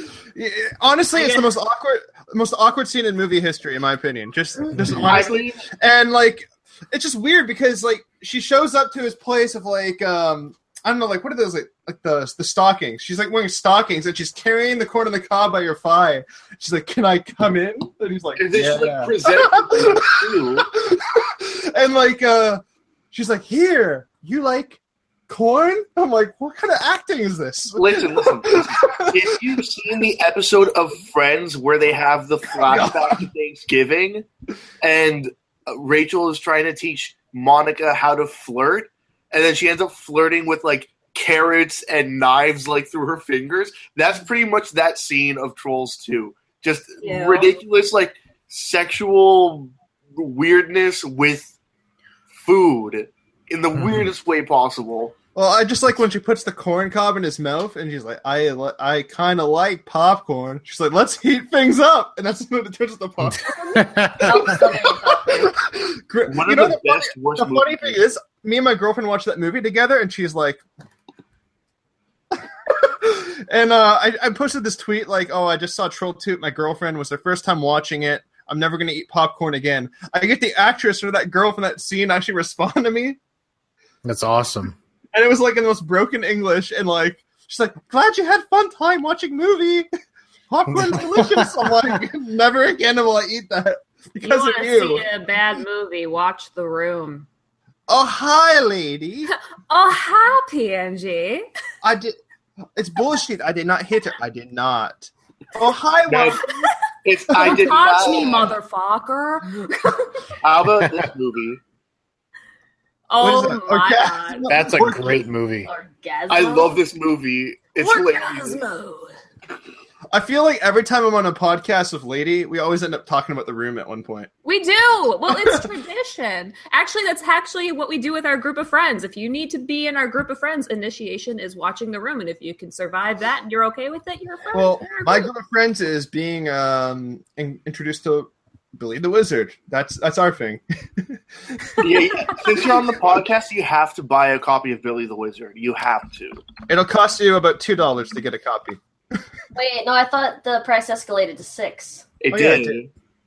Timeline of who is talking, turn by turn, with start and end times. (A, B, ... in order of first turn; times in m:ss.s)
0:00.3-0:29.3 A
0:01.2-0:01.5 B
0:04.8-0:05.1 C
0:05.1-0:05.6 D
0:18.4-0:20.7 D
0:27.8-0:34.3 D
0:32.6-0:33.2 A
0:34.8-0:51.5 D
0:47.0-0:47.6 E
0:52.4-0:55.1 D
0:53.8-0:54.1 C
0:55.3-1:10.6 A
1:03.2-1:04.6 C
1:03.7-1:05.5 E
1:06.3-1:08.0 D
1:12.4-1:23.2 A
1:24.0-1:24.8 C
1:25.1-1:29.9 A
1:30.5-1:35.0 A
1:30.7-1:32.0 C
1:34.2-1:37.3 B
1:37.9-1:39.3 A
1:39.7-1:41.4 B
1:41.8-1:42.2 A
1:42.8-1:46.6 A
1:46.1-1:46.4 D
1:47.0-1:48.5 D
1:47.3-1:50.4 B
1:50.4-1:51.6 D
1:53.1-1:54.5 B
1:53.2-1:55.2 A
1:54.5-1:55.7 C
1:55.6-1:56.7 E
1:56.3-1:58.6 D
1:57.8-1:59.2 B
2:00.1-2:04.3 A
2:04.4-2:15.3 B
2:05.3-2:05.6 A
2:14.5-2:22.6 A
2:21.8-2:26.4 D
2:26.7-2:28.8 A
2:29.5-2:32.0 E
2:32.2-2:32.9 D
2:32.3-2:32.8 A